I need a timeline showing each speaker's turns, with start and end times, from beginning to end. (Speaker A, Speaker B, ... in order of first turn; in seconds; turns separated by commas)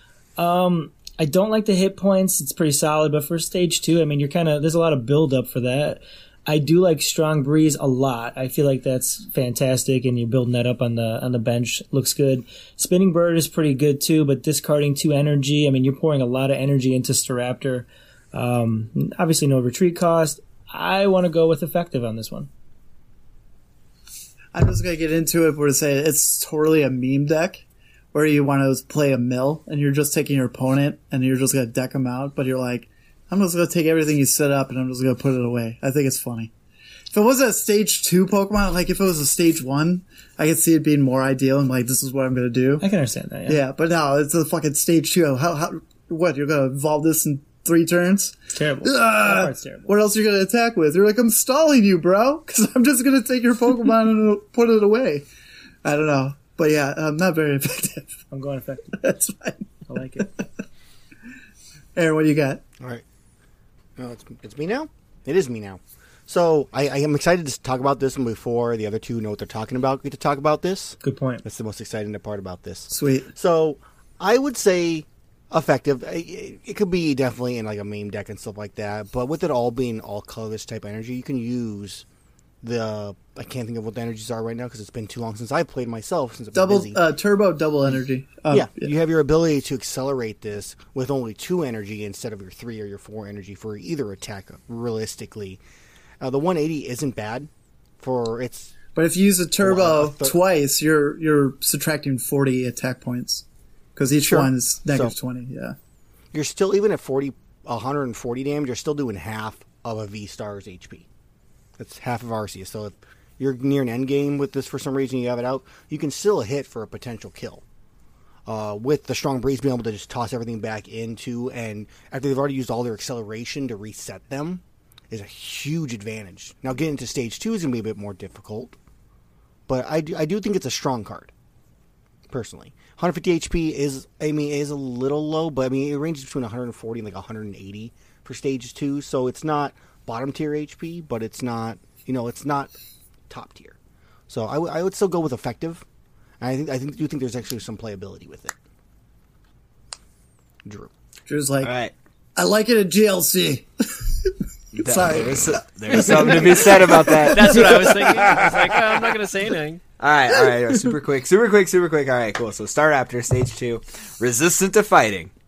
Speaker A: 0.4-22.5, Speaker B: 24.5-36.5, Speaker B: 37.1-42.9, Speaker A: 42.8-43.6, Speaker B: 43.5-55.3, Speaker A: 48.5-49.9, Speaker B: 55.8-58.2, Speaker A: 58.3-59.0, Speaker B: 59.0-59.7, Speaker A: 59.9-60.3, Speaker B: 62.0-62.6, Speaker C: 64.0-82.0, Speaker A: 71.0-71.5, Speaker B: 72.9-73.3, Speaker C: 82.6-87.0, Speaker B: 86.5-88.9, Speaker C: 88.5-95.6, Speaker C: 96.2-97.5, Speaker C: 98.0-98.7, Speaker B: 99.0-103.5, Speaker C: 99.6-100.4, Speaker B: 104.0-105.8, Speaker C: 104.2-105.1, Speaker C: 106.3-111.1, Speaker C: 111.8-117.6, Speaker C: 118.5-128.8, Speaker C: 129.7-131.3, Speaker C: 132.3-142.7, Speaker C: 143.3-143.8, Speaker C: 144.3-145.8, Speaker C: 146.4-148.6, Speaker C: 150.7-150.9, Speaker B: 151.3-151.7, Speaker D: 151.6-151.9, Speaker B: 152.4-157.6, Speaker D: 154.8-158.7, Speaker E: 157.2-159.8, Speaker D: 160.0-165.3